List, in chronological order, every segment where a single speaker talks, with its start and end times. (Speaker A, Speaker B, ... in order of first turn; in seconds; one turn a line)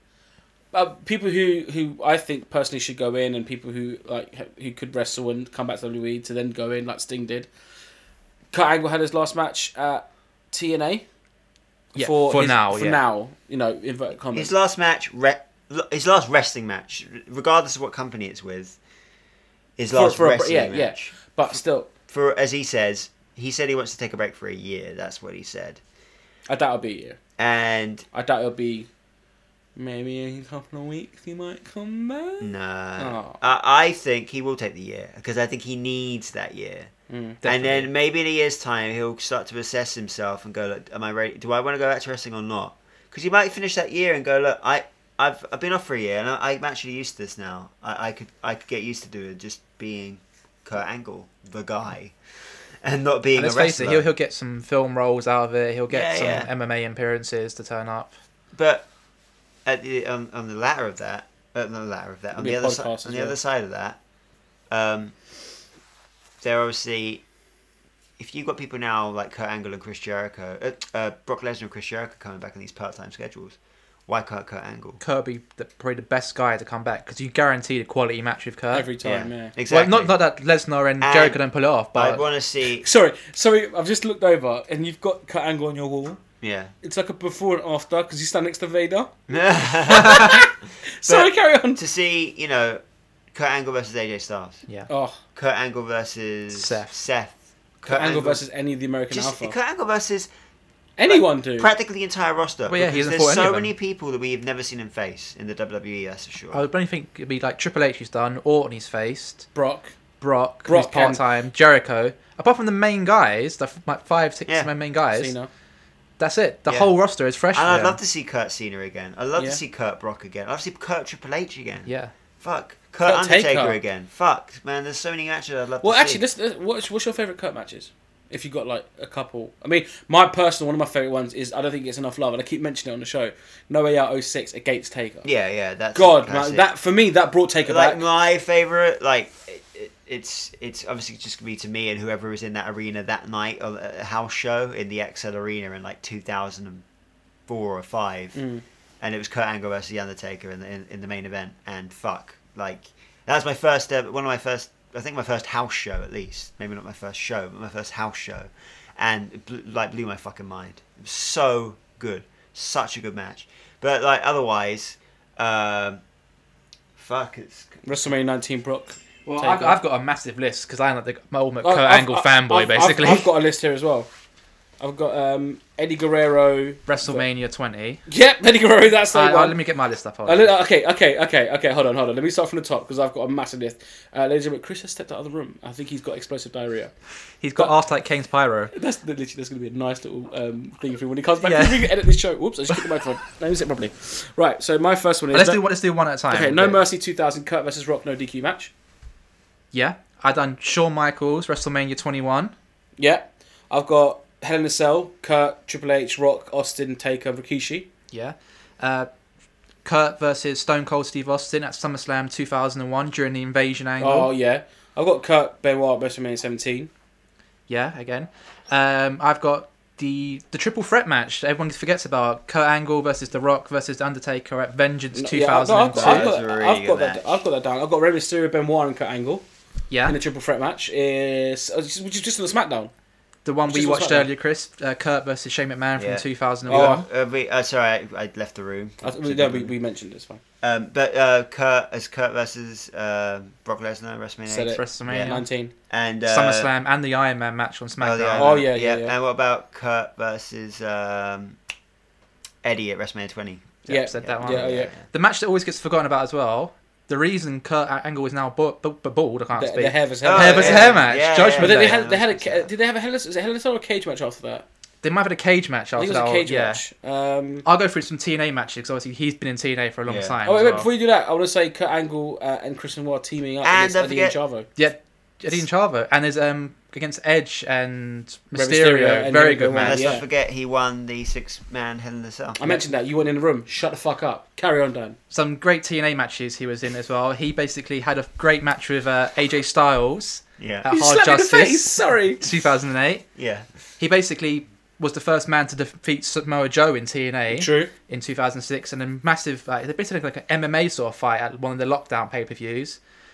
Speaker A: 0.7-7.5
Speaker A: 8.5-11.1
Speaker B: 11.9-13.0
Speaker A: 11.9-14.5
Speaker C: 14.3-18.8
Speaker C: 19.8-21.1
Speaker A: 19.9-21.9
Speaker C: 22.1-25.8
Speaker A: 26.5-27.2
Speaker C: 27.4-28.1
Speaker A: 28.1-28.9
Speaker A: 29.8-33.4
Speaker C: 32.4-36.9
Speaker A: 37.1-37.4
Speaker B: 37.4-37.9
Speaker C: 37.4-52.2
Speaker C: 52.8-54.1
Speaker B: 53.4-58.1
Speaker C: 55.9-56.5
Speaker C: 58.5-58.9
Speaker C: 59.6-64.0
Speaker A: 62.4-63.4
Speaker C: 64.7-65.2
Speaker C: 66.4-67.2
Speaker C: 68.2-75.0
Speaker B: 75.0-79.0
Speaker A: 78.7-79.5
Speaker C: 79.0-80.2
Speaker B: 79.7-82.2
Speaker C: 81.0-81.4
Speaker C: 81.9-82.9
Speaker A: 82.8-86.2
Speaker C: 86.4-86.7
Speaker A: 86.8-89.1
Speaker C: 89.3-90.4
Speaker A: 89.8-91.8
Speaker C: 91.0-92.8
Speaker C: 93.3-94.6
Speaker A: 94.9-95.2
Speaker C: 95.3-98.4
Speaker B: 96.5-96.9
Speaker A: 97.9-99.6
Speaker C: 99.1-100.3
Speaker A: 101.0-101.7
Speaker C: 101.1-106.6
Speaker B: 102.7-103.7
Speaker B: 106.5-109.5
Speaker A: 109.5-109.9
Speaker B: 110.2-115.3
Speaker A: 110.7-111.2
Speaker A: 115.1-115.5
Speaker B: 116.2-118.0
Speaker C: 117.5-121.9
Speaker B: 121.9-122.1
Speaker C: 122.4-126.2
Speaker A: 123.0-123.8
Speaker A: 125.8-135.3
Speaker C: 135.2-136.7
Speaker A: 135.9-138.0
Speaker C: 137.7-146.8
Speaker C: 147.5-148.4
Speaker A: 148.3-148.6
Speaker C: 149.0-166.0
Speaker C: 167.0-167.8
Speaker A: 167.8-169.8
Speaker B: 169.3-173.3
Speaker A: 171.6-174.1
Speaker A: 174.8-177.3
Speaker B: 176.9-178.0
Speaker A: 178.1-179.6
Speaker B: 179.1-180.5
Speaker A: 180.2-186.9
Speaker B: 187.4-188.7
Speaker A: 188.7-195.6
Speaker B: 191.4-191.9
Speaker B: 195.3-196.8
Speaker A: 196.3-198.7
Speaker B: 199.7-202.5
Speaker A: 203.0-207.9
Speaker B: 208.1-209.1
Speaker B: 209.8-214.3
Speaker A: 214.0-216.9
Speaker B: 217.7-226.3
Speaker A: 225.1-229.4
Speaker C: 225.9-227.4
Speaker B: 229.9-230.2
Speaker A: 230.1-232.9
Speaker B: 233.4-237.1
Speaker A: 233.7-234.3
Speaker C: 236.0-239.8
Speaker A: 236.7-237.1
Speaker A: 239.0-240.4
Speaker C: 240.6-245.4
Speaker A: 244.5-245.7
Speaker B: 244.8-245.5
Speaker C: 245.9-246.7
Speaker B: 246.3-248.6
Speaker C: 248.0-251.6
Speaker A: 248.4-249.2
Speaker C: 252.6-255.0
Speaker B: 253.9-262.0
Speaker A: 253.9-254.9
Speaker A: 259.6-264.6
Speaker C: 260.2-262.7
Speaker B: 265.0-266.8
Speaker A: 266.0-267.7
Speaker B: 267.6-270.9
Speaker C: 270.1-270.4
Speaker A: 270.4-274.7
Speaker C: 273.6-274.4
Speaker B: 274.8-280.2
Speaker A: 278.6-280.2
Speaker C: 279.8-282.6
Speaker A: 282.6-285.2
Speaker B: 285.3-293.3
Speaker C: 290.6-290.9
Speaker A: 290.9-292.4
Speaker C: 293.4-293.7
Speaker B: 294.0-303.0
Speaker A: 297.5-297.9